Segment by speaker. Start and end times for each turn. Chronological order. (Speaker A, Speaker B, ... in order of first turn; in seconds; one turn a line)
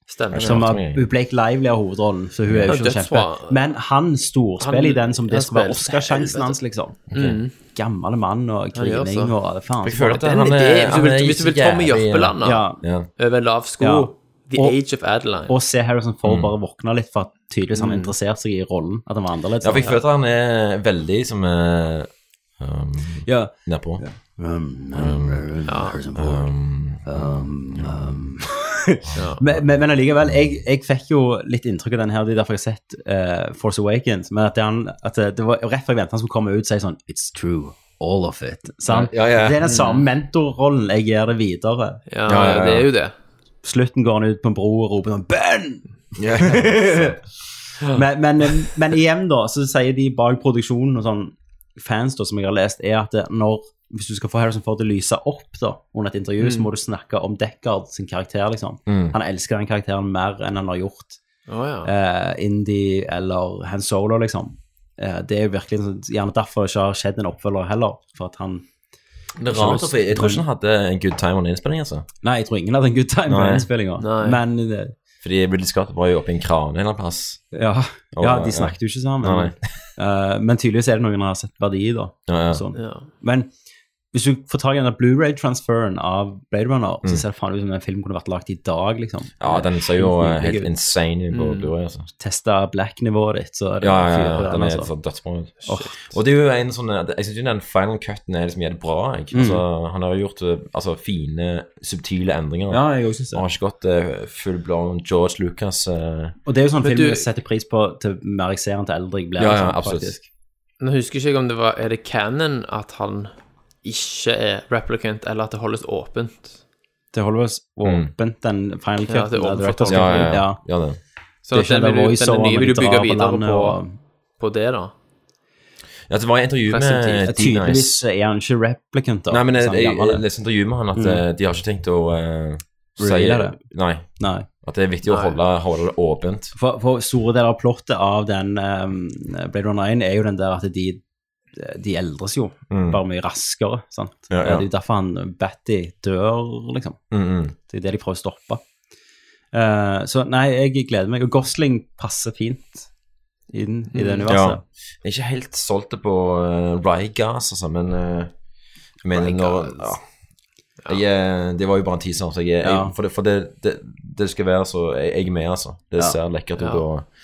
Speaker A: 0.1-0.7
Speaker B: 0.3-1.1
Speaker C: 0.4-7.0
Speaker B: 2.5-2.8
Speaker A: 2.7-3.7
Speaker A: 4.6-6.6
Speaker B: 7.1-7.4
Speaker A: 7.1-7.5
Speaker C: 7.7-10.2
Speaker A: 8.8-9.3
Speaker B: 9.8-13.1
Speaker A: 10.1-12.7
Speaker C: 12.4-12.8
Speaker A: 13.2-15.5
Speaker C: 13.8-14.8
Speaker C: 15.5-20.0
Speaker B: 16.2-16.5
Speaker A: 17.8-18.1
Speaker B: 19.6-24.0
Speaker C: 23.3-26.5
Speaker B: 24.9-25.4
Speaker A: 25.7-26.0
Speaker B: 26.2-28.2
Speaker C: 27.1-42.0
Speaker B: 38.9-39.7
Speaker A: 39.6-40.1
Speaker A: 42.1-43.1
Speaker B: 42.3-42.9
Speaker C: 43.6-45.8
Speaker B: 46.2-47.2
Speaker C: 46.4-47.2
Speaker C: 47.9-61.2
Speaker A: 56.4-56.7
Speaker B: 58.9-59.2
Speaker A: 61.5-61.9
Speaker C: 61.9-68.7
Speaker B: 69.4-72.1
Speaker C: 69.5-70.4
Speaker C: 72.2-74.9
Speaker B: 73.3-73.7
Speaker A: 74.0-74.4
Speaker B: 75.2-77.4
Speaker C: 77.5-83.5
Speaker B: 78.2-79.6
Speaker B: 82.3-82.6
Speaker A: 82.8-83.1
Speaker C: 84.1-90.7
Speaker B: 89.4-92.1
Speaker A: 91.3-91.7
Speaker C: 92.2-94.9
Speaker B: 93.8-106.4
Speaker C: 95.7-95.9
Speaker C: 99.3-99.6
Speaker C: 102.7-103.4
Speaker C: 106.5-110.2
Speaker A: 106.8-107.2
Speaker B: 109.4-110.2
Speaker A: 110.8-113.3
Speaker A: 113.8-116.6
Speaker C: 117.1-120.6
Speaker B: 117.8-118.1
Speaker A: 119.1-120.3
Speaker B: 119.9-121.0
Speaker A: 121.5-123.8
Speaker C: 121.5-123.9
Speaker A: 124.4-124.9
Speaker B: 126.1-128.0
Speaker C: 127.2-130.2
Speaker B: 129.3-134.1
Speaker C: 130.9-131.2
Speaker C: 133.0-133.6
Speaker C: 134.2-134.5
Speaker B: 134.6-136.5
Speaker A: 135.1-135.4
Speaker C: 136.6-141.0
Speaker C: 141.6-147.0
Speaker B: 142.7-143.0
Speaker B: 144.3-144.7
Speaker B: 147.1-147.6
Speaker C: 147.7-148.6
Speaker C: 149.5-152.9
Speaker C: 153.5-154.6
Speaker A: 153.9-154.3
Speaker B: 154.3-158.3
Speaker B: 159.0-160.0
Speaker A: 159.1-159.9
Speaker B: 160.9-167.1
Speaker C: 162.6-162.9
Speaker A: 166.6-166.8